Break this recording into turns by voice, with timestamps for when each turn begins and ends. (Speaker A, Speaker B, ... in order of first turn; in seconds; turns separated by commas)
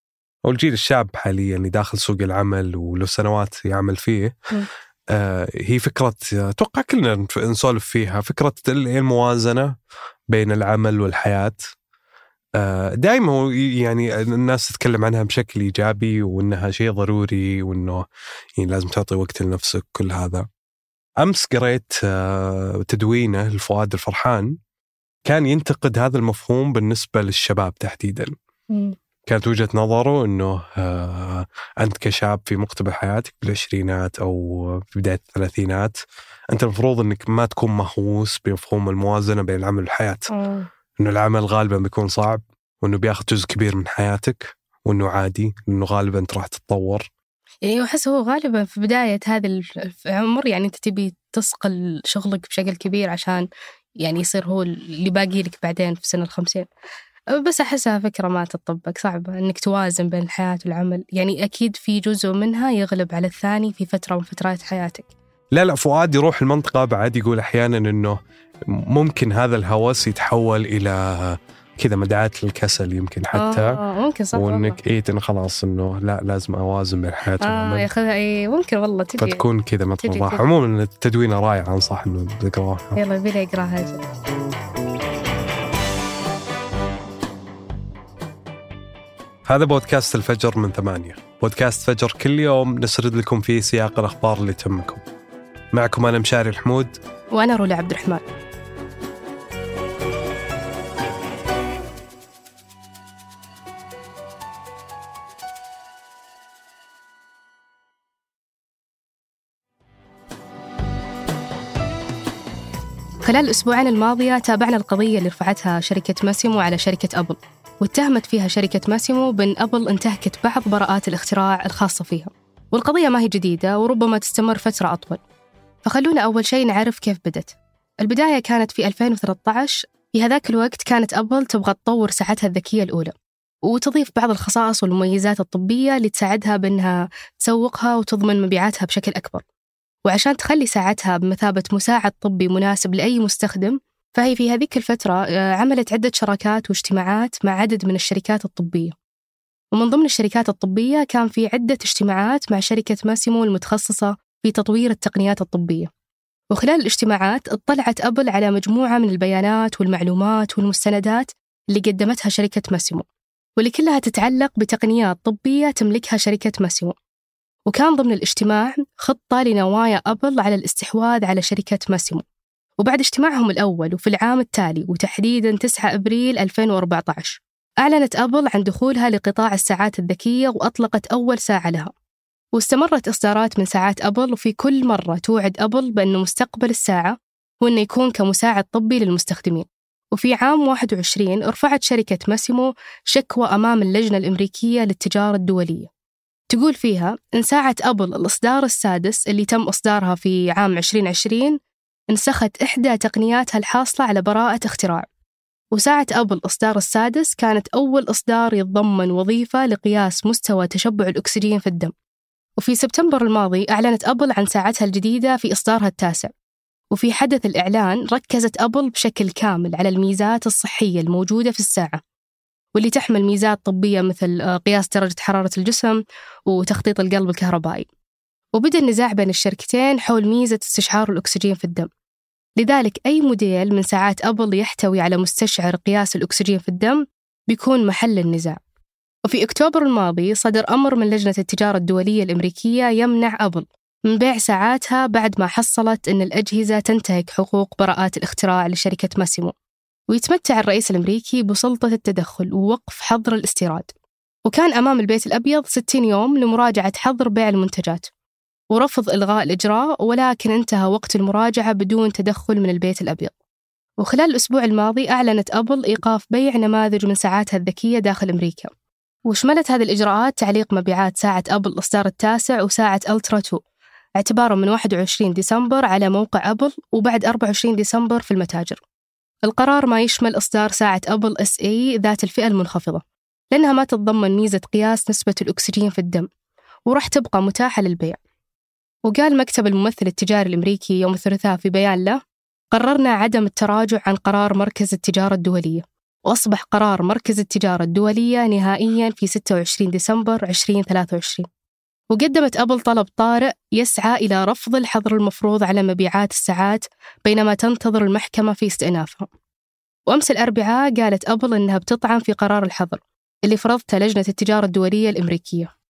Speaker A: 0.5-4.3, Speaker A: 5.1-9.7, Speaker A: 10.3-11.6, Speaker A: 12.6-18.0, Speaker A: 18.6-20.5, Speaker A: 21.2-24.6, Speaker A: 25.2-28.3, Speaker B: 28.7-28.9, Speaker A: 29.2-36.0, Speaker A: 36.5-40.3, Speaker B: 40.3-40.7, Speaker A: 41.0-47.1, Speaker B: 47.6-53.5, Speaker B: 54.0-56.7, Speaker B: 57.4-65.1, Speaker A: 65.5-68.2, Speaker A: 68.9-73.8, Speaker B: 73.3-74.8, Speaker A: 74.3-77.9, Speaker B: 77.4-79.4, Speaker A: 79.2-83.0, Speaker B: 80.0-80.4, Speaker B: 83.0-84.0, Speaker A: 89.5-95.0, Speaker A: 95.7-97.0, Speaker B: 97.3-98.2, Speaker B: 113.2-125.2, Speaker B: 125.8-133.1, Speaker B: 133.7-139.4, Speaker B: 140.1-148.9, Speaker B: 149.7-155.9, Speaker B: 156.5-163.0, Speaker B: 163.6-166.9, Speaker B: 167.7-172.2, Speaker B: 172.8-181.9, Speaker B: 182.5-195.9, Speaker B: 196.5-201.6, Speaker B: 202.1-205.1, Speaker B: 205.7-211.9, Speaker B: 212.6-216.3, Speaker B: 216.9-222.0, Speaker B: 222.7-227.9, Speaker B: 228.5-231.9, Speaker B: 232.6-238.6, Speaker B: 239.3-249.5, Speaker B: 250.1-253.9, Speaker B: 254.4-258.1, Speaker B: 258.7-263.3, Speaker B: 264.0-268.7, Speaker B: 269.3-273.6, Speaker B: 274.2-278.8, Speaker B: 279.4-286.2, Speaker B: 286.9-288.2, Speaker B: 289.0-292.2, Speaker B: 292.7-301.4, Speaker B: 302.1-309.3, Speaker B: 310.1-315.7